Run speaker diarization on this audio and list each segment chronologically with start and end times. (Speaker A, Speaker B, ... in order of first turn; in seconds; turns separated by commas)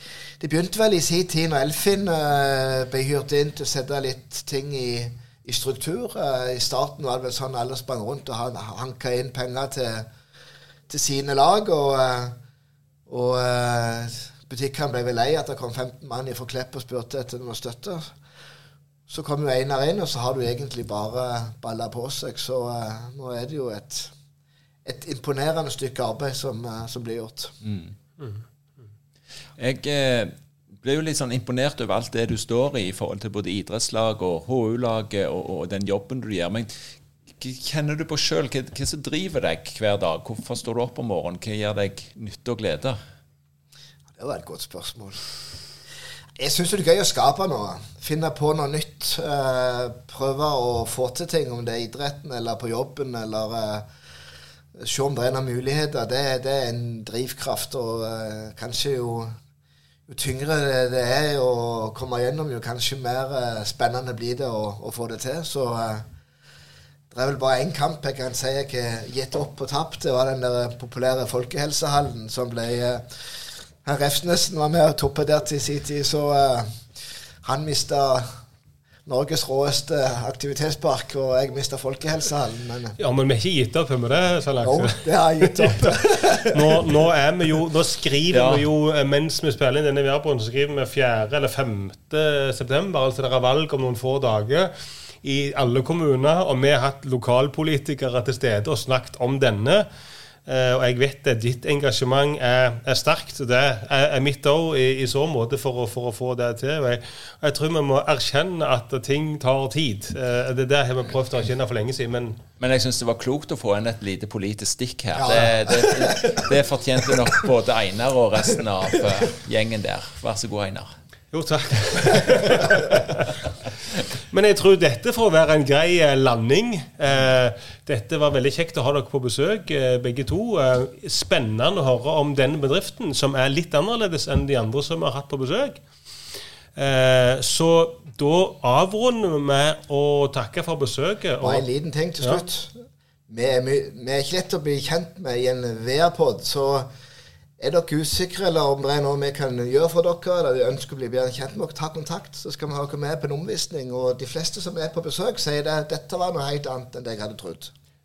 Speaker A: 0.4-10.1, Speaker A: 10.9-12.3, Speaker A: 13.1-18.1, Speaker A: 19.1-24.1, Speaker A: 24.8-27.6, Speaker B: 27.6-27.9, Speaker B: 29.6-36.7, Speaker B: 37.4-43.0, Speaker A: 44.1-45.2, Speaker A: 46.4-53.9, Speaker A: 54.8-59.4, Speaker A: 60.1-66.1, Speaker A: 67.1-73.2, Speaker A: 73.8-76.8, Speaker A: 77.4-78.4, Speaker A: 79.0-83.0, Speaker C: 83.0-85.9, Speaker A: 84.6-86.8, Speaker C: 86.4-99.8, Speaker B: 88.3-88.7, Speaker C: 100.5-112.4, Speaker B: 112.6-120.9, Speaker A: 115.2-116.5, Speaker C: 121.3-123.3, Speaker C: 124.3-135.8, Speaker C: 136.7-141.6, Speaker A: 141.4-146.9, Speaker A: 147.6-157.7